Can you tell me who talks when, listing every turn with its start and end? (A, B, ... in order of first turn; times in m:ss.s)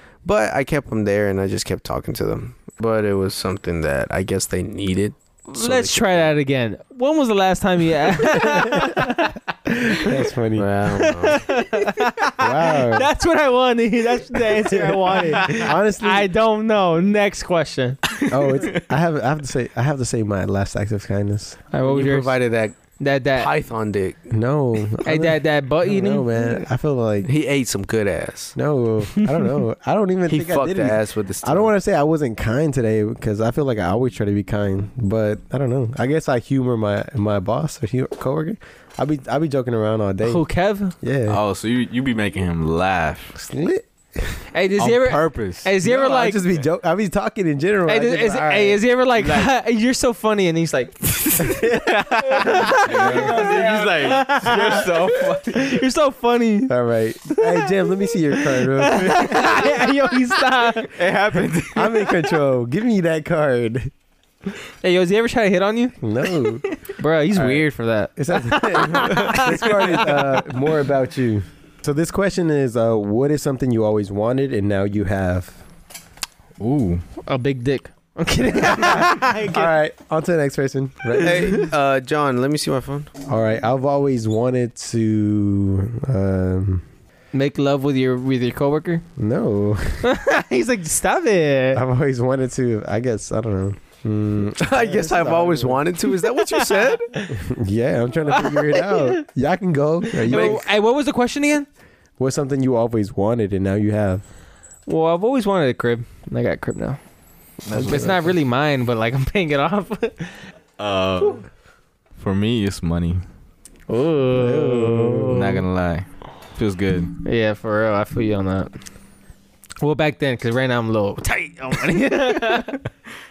0:00.2-0:06.3 A
0:05.5-0:10.2 B
0:08.4-0:09.0 C
0:09.9-0:10.7 C
0:10.6-0:11.5 A
0:10.9-0:18.0 B
0:12.4-0:13.1 C
0:14.9-0:16.3 C
0:15.2-0:15.7 D
0:18.1-0:18.8 D
0:18.3-0:21.6 C
0:21.7-0:22.4 B
0:21.8-0:22.8 A
0:23.0-0:23.5 B
0:23.3-0:24.2 A
0:24.3-0:27.3 C
0:25.0-0:26.5 B
0:27.2-0:28.6 A
0:28.6-0:40.4 C
0:29.2-0:29.6 B
0:30.3-0:31.7 A
0:40.2-0:41.0 B
0:41.0-0:41.4 C
0:41.3-0:43.4 D
0:43.4-0:44.4 C
0:44.5-0:46.4 B
0:44.8-0:45.7 D
0:45.8-0:48.8 C
0:47.9-0:56.8 B
0:49.2-0:49.5 D
0:51.4-0:51.8 C
0:52.3-0:55.8 D
0:52.9-0:53.5 C
0:56.7-0:59.7 C
0:57.4-1:01.0 B
0:59.2-0:59.7 D
1:00.9-1:02.2 D
1:01.7-1:03.9 C
1:04.8-1:06.0 B
1:06.0-1:06.6 C
1:07.0-1:10.5 B
1:08.2-1:15.6 C
1:16.6-1:17.0 D
1:17.2-1:19.7 B
1:18.6-1:21.7 C
1:21.2-1:23.1 A
1:23.3-1:26.8 C
1:27.3-1:29.1 B
1:29.2-1:30.1 C
1:30.0-1:31.8 B
1:31.7-1:35.9 C
1:34.6-1:37.1 A
1:36.8-1:37.3 B
1:37.3-1:40.6 C
1:38.3-1:39.2 B
1:40.1-1:41.7 B
1:40.3-1:40.6 A
1:42.2-1:44.2 C
1:44.9-1:47.0 B
1:47.6-1:48.3 D
1:47.7-1:48.2 C
1:47.9-1:50.4 B
1:50.8-1:51.5 D
1:52.2-1:53.2 D
1:53.9-1:55.6 B
1:54.3-1:55.6 C
1:55.2-1:57.2 D
1:57.2-1:58.7 B
1:59.8-2:02.9 B